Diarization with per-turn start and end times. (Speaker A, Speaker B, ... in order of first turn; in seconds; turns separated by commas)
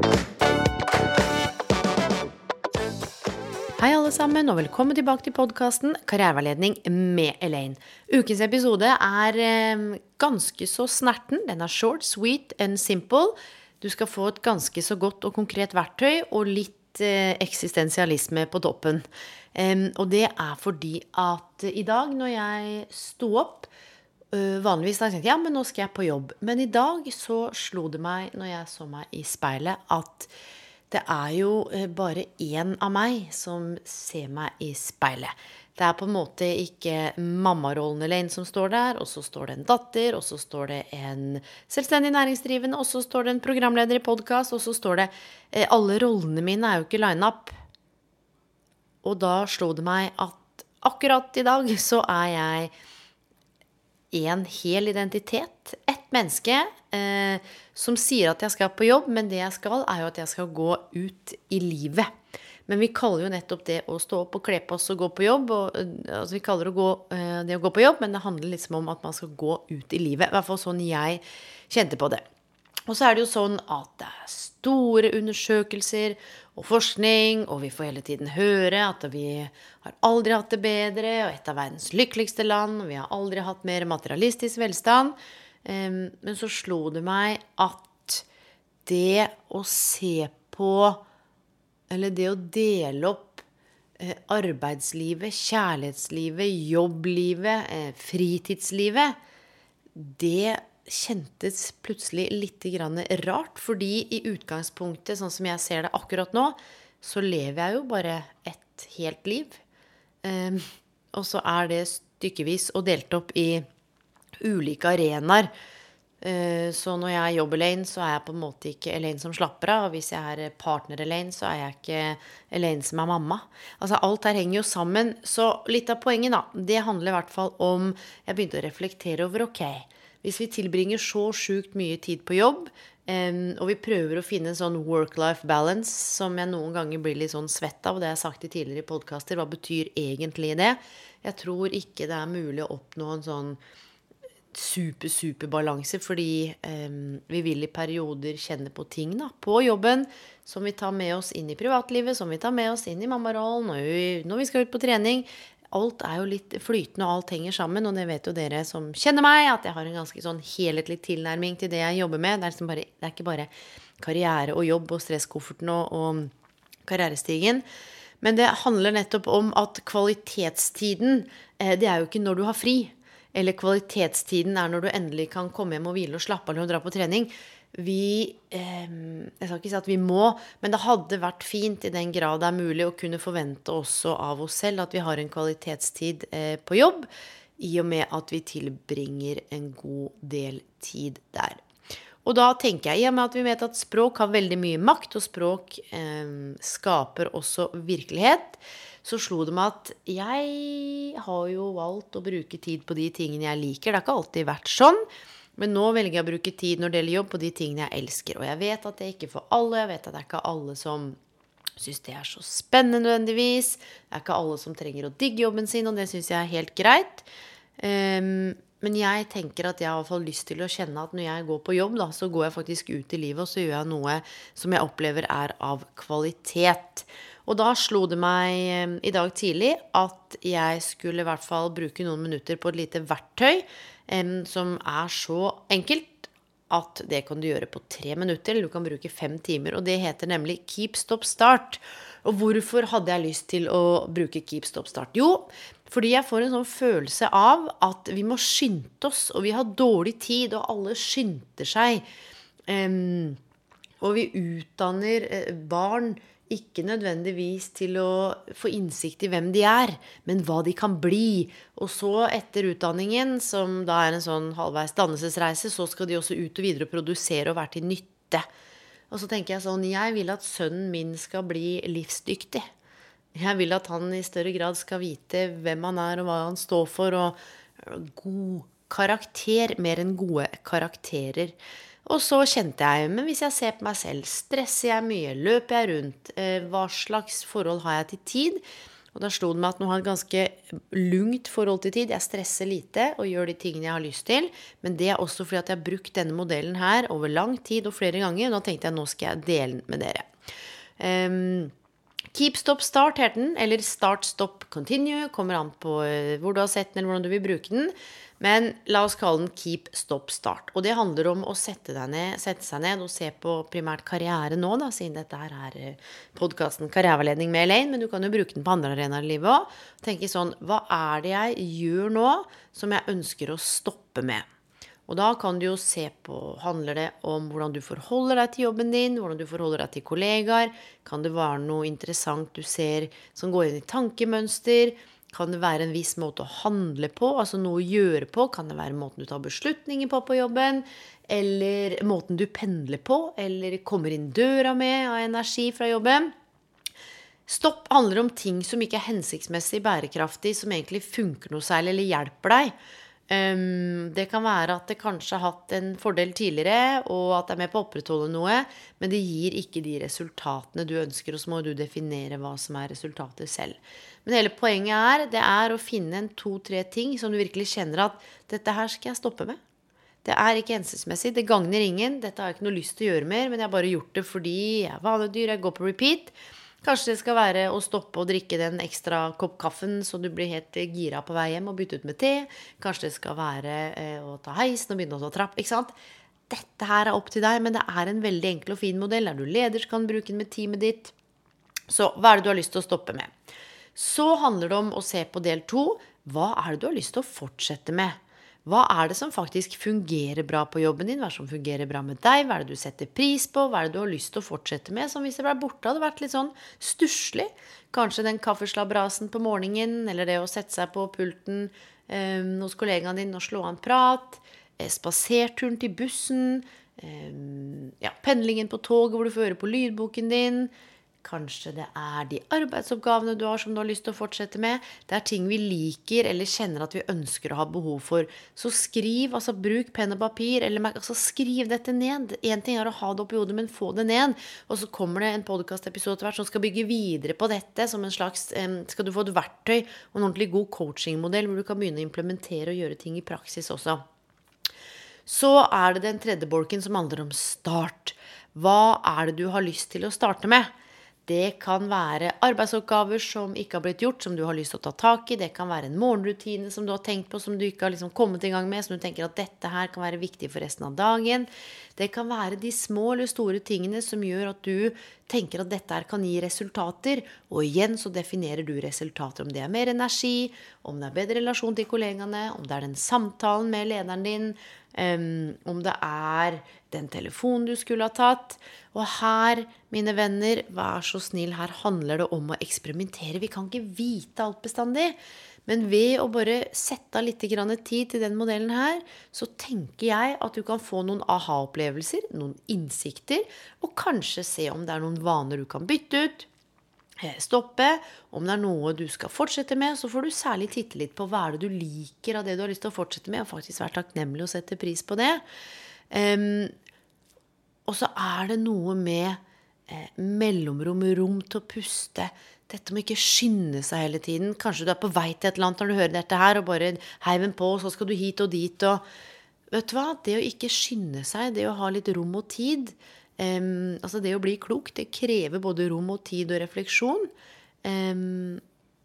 Speaker A: 3.8-23.7, Speaker A: 24.3-30.3, Speaker A: 30.9-47.5, Speaker A: 49.0-52.7, Speaker A: 54.1-62.1, Speaker A: 62.7-72.2, Speaker A: 72.9-88.2, Speaker A: 88.8-91.0, Speaker A: 91.9-93.4, Speaker A: 94.0-99.2, Speaker A: 100.0-109.6, Speaker A: 110.2-113.6, Speaker A: 114.4-115.5, Speaker A: 116.2-143.6, Speaker A: 144.5-166.3, Speaker A: 166.8-167.6, Speaker A: 168.2-187.1, Speaker A: 187.6-191.6, Speaker A: 192.2-205.0, Speaker A: 205.6-211.2, Speaker A: 211.8-252.0, Speaker A: 252.7-253.4, Speaker A: 254.0-268.4, Speaker A: 269.1-272.6, Speaker A: 273.3-288.6, Speaker A: 289.1-300.3, Speaker A: 301.0-301.7, Speaker A: 302.3-324.4, Speaker A: 325.1-346.3, Speaker A: 347.5-352.7, Speaker A: 353.3-369.6, Speaker A: 370.2-385.9, Speaker A: 386.5-391.1, Speaker A: 391.9-393.3, Speaker A: 393.9-444.0, Speaker A: 445.2-450.7, Speaker A: 451.2-496.5, Speaker A: 497.2-505.4, Speaker A: 506.1-506.7, Speaker A: 507.9-519.0, Speaker A: 519.7-527.3, Speaker A: 527.8-528.6